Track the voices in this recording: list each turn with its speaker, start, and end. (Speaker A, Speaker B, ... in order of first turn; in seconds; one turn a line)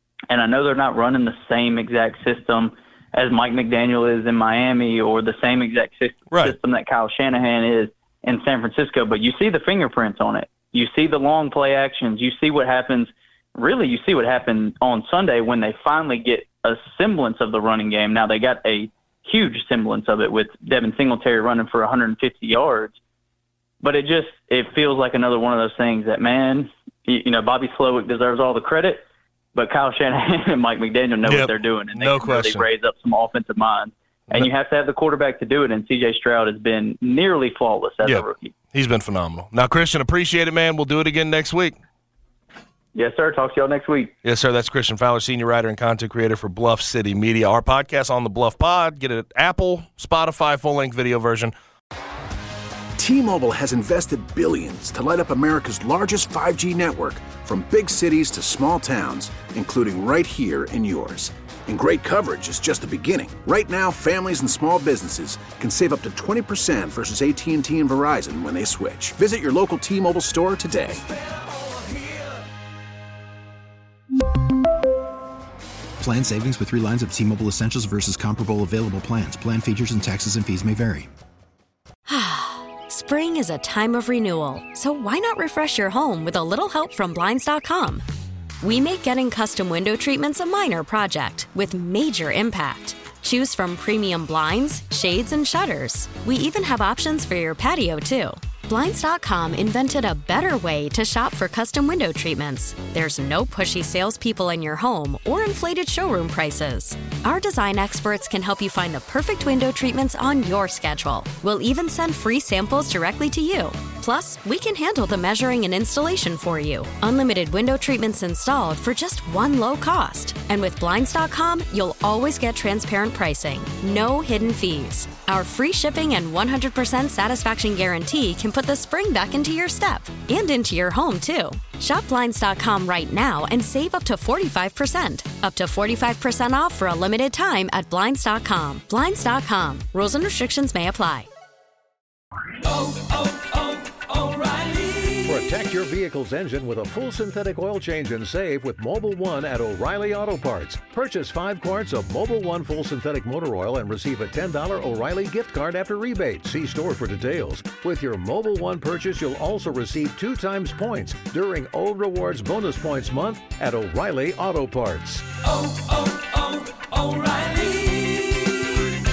Speaker A: 0.3-23.0
Speaker A: 23.8-29.0
Speaker A: 29.5-38.5
Speaker B: 31.2-32.6
Speaker B: 38.0-41.8
Speaker A: 42.9-44.1
Speaker B: 44.2-51.5
Speaker C: 53.0-71.0
Speaker D: 76.0-81.1
Speaker E: 82.1-88.0
Speaker E: 88.6-141.3
Speaker F: 145.2-165.3